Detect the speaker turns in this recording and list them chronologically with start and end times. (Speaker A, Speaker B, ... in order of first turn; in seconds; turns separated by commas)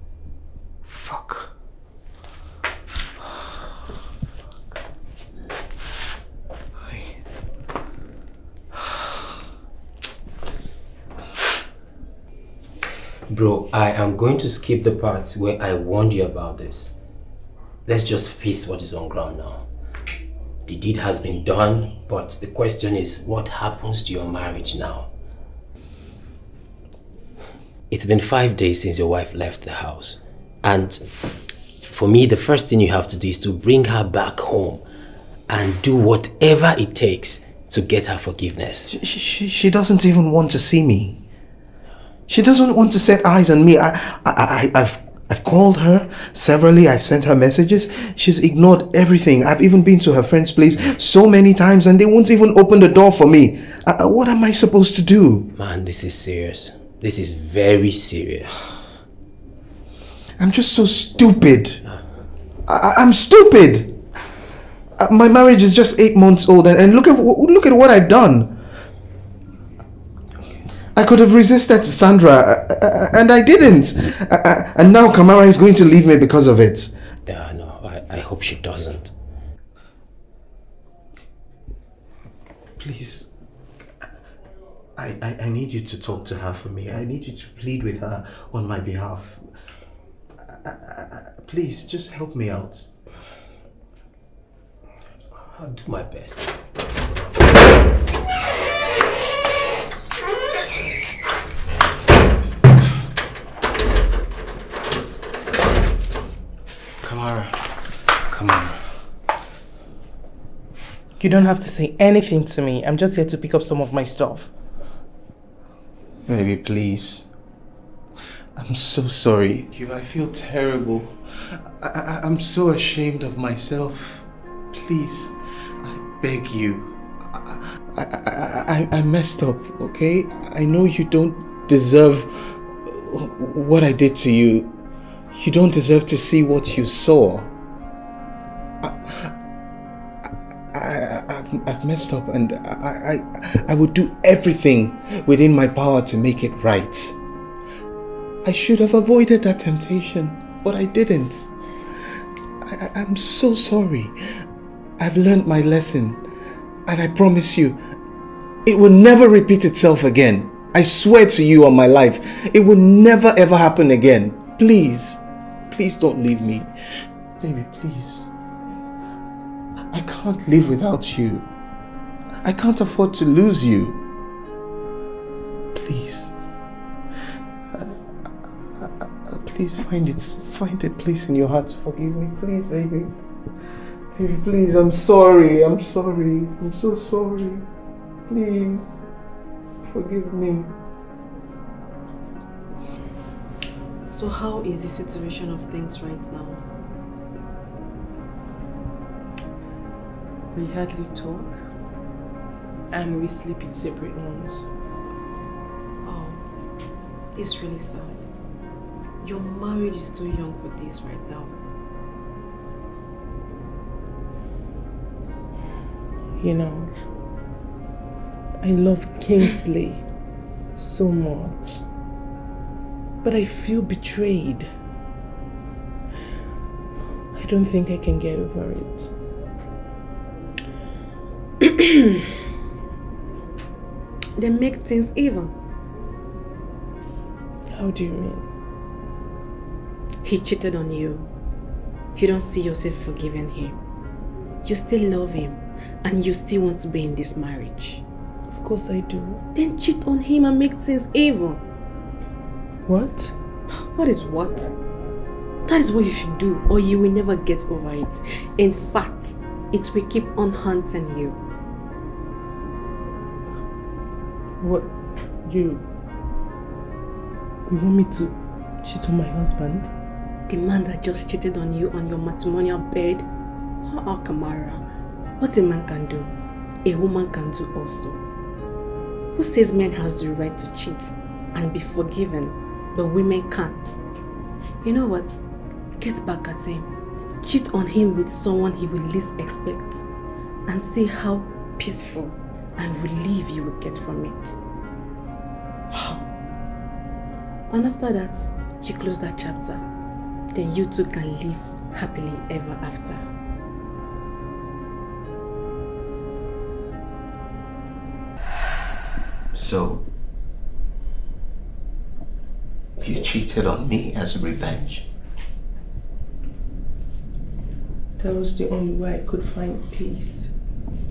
Speaker A: 0.8-1.5, Speaker A: 6.8-7.2, Speaker A: 8.7-9.2, Speaker B: 13.3-16.9, Speaker B: 17.9-19.7, Speaker B: 20.6-25.1, Speaker B: 27.9-31.0, Speaker B: 31.9-34.8, Speaker B: 35.5-38.9, Speaker A: 38.9-41.2, Speaker A: 42.3-55.5, Speaker B: 55.5-58.7, Speaker A: 60.4-61.8, Speaker A: 62.7-64.0, Speaker A: 65.0-68.6, Speaker A: 70.9-76.9, Speaker B: 77.3-79.1, Speaker A: 82.8-83.3, Speaker A: 85.0-89.5, Speaker A: 90.4-92.9, Speaker B: 95.3-96.5, Speaker A: 107.0-108.8, Speaker C: 111.2-114.5, Speaker A: 116.2-117.3, Speaker A: 118.5-134.8, Speaker A: 135.3-137.5, Speaker A: 138.8-139.3, Speaker A: 140.2-147.2, Speaker A: 148.4-151.5, Speaker A: 152.6-154.4, Speaker A: 155.0-156.2, Speaker A: 156.8-157.8, Speaker A: 158.6-166.7, Speaker A: 167.4-168.3, Speaker A: 169.9-171.5, Speaker A: 172.4-174.0, Speaker A: 175.7-176.3, Speaker A: 177.7-178.0, Speaker A: 178.7-183.1, Speaker A: 184.1-187.7, Speaker A: 188.3-188.9, Speaker A: 189.8-190.8, Speaker D: 194.1-196.6, Speaker C: 200.5-201.6, Speaker C: 202.9-204.7, Speaker D: 206.0-206.4, Speaker D: 207.3-208.2, Speaker D: 209.2-211.6, Speaker C: 216.4-216.9, Speaker C: 218.6-220.0, Speaker C: 220.8-221.8, Speaker C: 223.2-224.7, Speaker C: 227.3-229.1, Speaker D: 234.4-235.5, Speaker C: 237.7-238.5, Speaker D: 240.2-241.3, Speaker D: 242.1-243.8, Speaker D: 244.6-248.0, Speaker C: 248.5-249.4, Speaker D: 249.5-251.6, Speaker C: 252.8-253.3, Speaker D: 253.7-254.7, Speaker D: 255.6-261.4, Speaker C: 264.6-264.9, Speaker C: 265.4-265.8, Speaker C: 267.7-269.9, Speaker D: 270.5-273.3, Speaker D: 273.8-274.8, Speaker D: 275.4-276.3, Speaker D: 276.8-278.2, Speaker D: 279.3-284.0, Speaker D: 284.8-285.4, Speaker D: 286.0-290.1, Speaker D: 290.7-294.6, Speaker D: 295.9-296.2, Speaker D: 297.7-299.9, Speaker D: 300.5-303.3, Speaker A: 309.5-310.0, Speaker A: 313.0-315.1, Speaker C: 318.2-320.5